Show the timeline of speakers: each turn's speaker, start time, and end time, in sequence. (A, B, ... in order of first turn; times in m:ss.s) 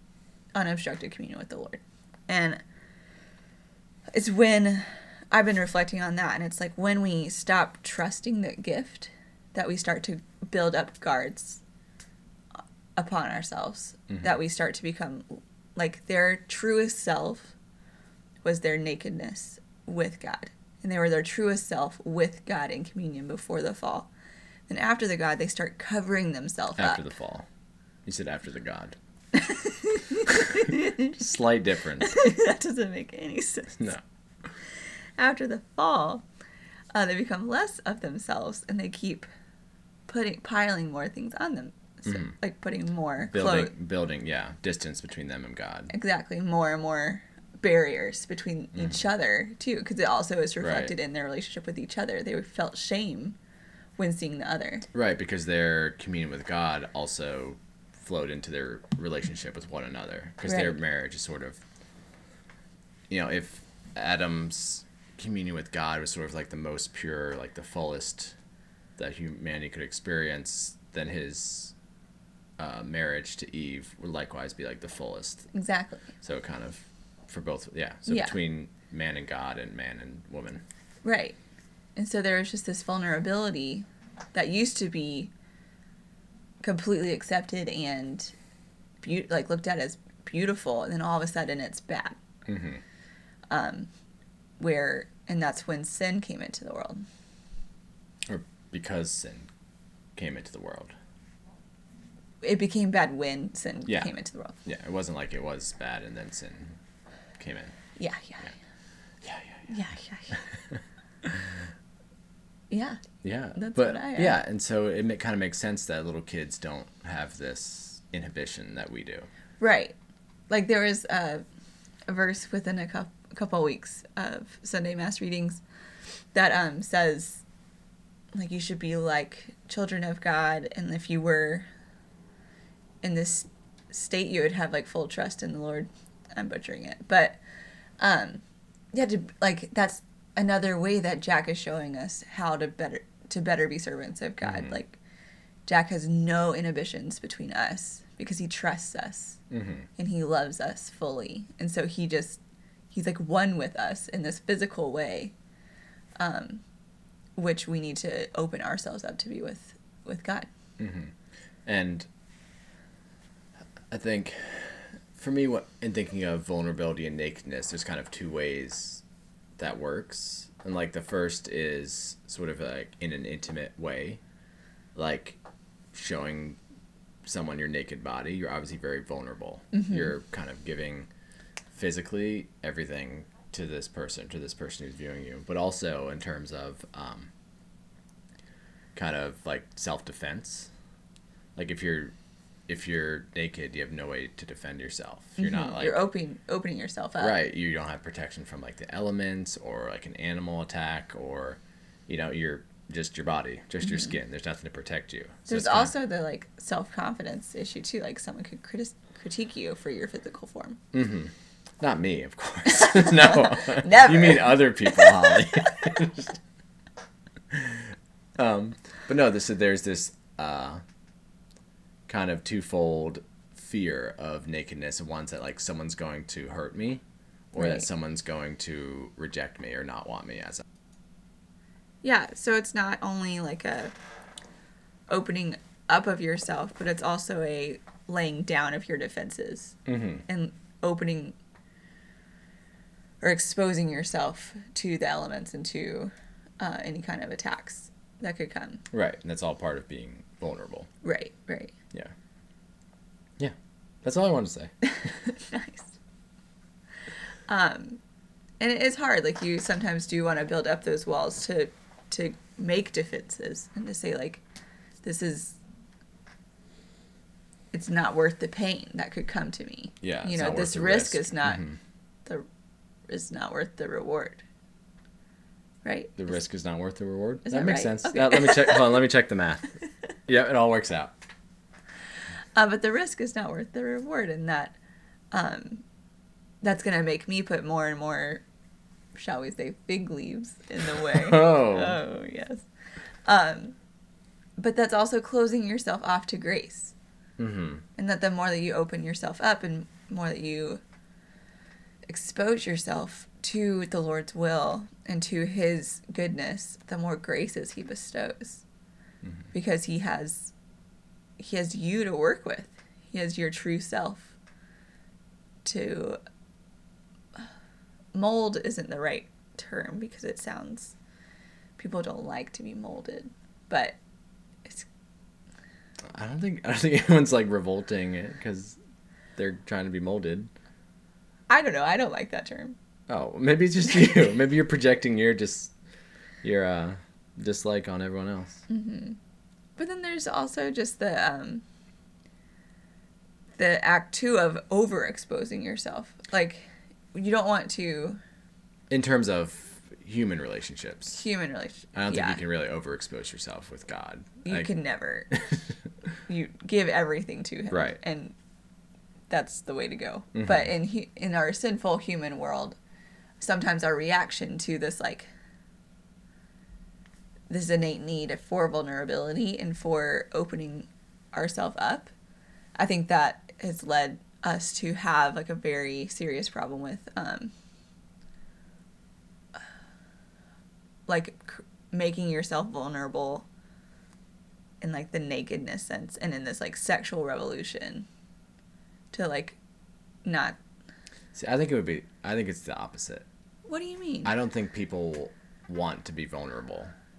0:00.5-0:02.6 A
0:04.1-0:11.6 A
0:13.0-0:17.5 A
0:18.4-0:24.1 A
0:24.7-0:27.0 A
0:26.8-0:27.4 B
0:28.0-0:29.0 B
0:29.3-0:31.1 A
0:30.5-0:32.2 B
0:32.0-0:33.9 A
0:35.2-0:36.2 A
0:36.9-0:39.3 A
0:40.1-0:43.7 A
0:42.0-0:42.3 B
0:43.3-0:45.9 B
0:45.9-0:53.4 A
0:50.6-0:50.9 B
0:54.0-0:54.9 A
0:54.9-1:01.6 B
1:00.4-1:00.8 A
1:03.1-1:08.3 B
1:09.0-1:11.7 B
1:12.6-1:15.5 B
1:15.5-1:16.1 A
1:16.2-1:20.6 B
1:18.0-1:18.3 A
1:21.0-1:21.4 A
1:22.0-1:25.3 A
1:26.6-1:28.3 A
1:29.0-1:32.2 A
1:32.5-1:32.8 B
1:33.5-1:33.9 A
1:34.6-1:37.0 A
1:38.3-1:39.5 B
1:40.1-1:40.9 B
1:42.4-1:44.6 A
1:44.6-1:46.8 B
1:47.4-1:47.7 B
1:48.0-1:48.5 A
1:49.2-1:49.7 B
1:49.7-1:50.4 A
1:52.7-1:53.0 A
1:53.2-1:59.3 B
1:53.5-1:54.4 A
1:59.6-2:00.0 A
2:00.5-2:01.4 A
2:02.1-2:05.6 A
2:06.3-2:07.4 A
2:08.3-2:11.7 A
2:13.0-2:17.4 A
2:18.0-2:18.4 A
2:18.9-2:25.0 A
2:25.6-2:29.4 A
2:29.5-2:29.8 B
2:30.0-2:32.4 A
2:32.9-2:35.3 A
2:36.2-2:36.6 A
2:37.4-2:40.5 A
2:40.8-2:41.1 B
2:41.6-2:42.1 B
2:43.9-2:49.0 B
2:49.6-2:54.2 B
2:54.9-2:55.4 B
2:55.9-2:56.6 B
2:57.2-3:01.1 B
2:59.7-3:00.0 A
3:01.7-3:07.3 B
3:08.9-3:10.7 B
3:11.6-3:12.1 B
3:12.7-3:16.0 B
3:15.4-3:17.4 A
3:17.2-3:25.9 B
3:25.5-3:30.8 A
3:30.9-3:36.4 B
3:32.7-3:35.9 A
3:37.5-3:40.8 B
3:42.1-3:50.6 B
3:47.6-3:47.9 A
3:52.0-3:53.9 A
3:55.1-4:01.3 A
3:59.9-4:00.2 B
4:03.2-4:08.8 A
4:08.9-4:10.9 B
4:11.0-4:11.7 A
4:13.4-4:14.7 B
4:14.9-4:15.9 A
4:17.5-4:18.0 A
4:18.6-4:24.4 A
4:25.0-4:25.6 A
4:27.7-4:31.6 A
4:30.0-4:31.8 B
4:33.1-4:34.4 A
4:35.8-4:36.2 A
4:36.2-4:39.7 B
4:37.4-4:38.9 A
4:40.3-4:41.2 B
4:42.6-4:44.8 A
4:45.3-4:45.8 A
4:46.6-4:48.4 A
4:49.1-4:52.6 A
4:51.0-4:52.0 B
4:53.3-4:53.7 A
4:54.6-4:56.9 A
4:57.4-4:57.8 B
4:58.0-5:00.8 A
5:02.1-5:08.6 A
5:09.5-5:10.5 A
5:11.4-5:14.3 A
5:15.6-5:16.2 A
5:18.1-5:21.0 A
5:21.8-5:24.0 A
5:26.1-5:28.8 B
5:29.4-5:30.5 B
5:31.5-5:32.8 A
5:33.1-5:35.7 B
5:36.4-5:38.6 B
5:38.7-5:39.2 A
5:39.8-5:41.6 A
5:43.6-5:48.2 A
5:48.9-5:51.2 B
5:51.1-5:52.4 A
5:51.9-5:54.7 B
5:54.4-5:55.4 A
5:56.3-5:58.3 A
5:57.7-5:58.0 B
5:59.3-6:02.8 A
6:00.3-6:00.7 B
6:03.4-6:05.3 A
6:07.5-6:12.1 A
6:12.8-6:17.5 A
6:21.1-6:23.5 A
6:24.8-6:28.0 A
6:29.1-6:29.6 A
6:30.2-6:30.6 A
6:31.3-6:33.2 B
6:33.6-6:34.3 A
6:34.2-6:36.9 B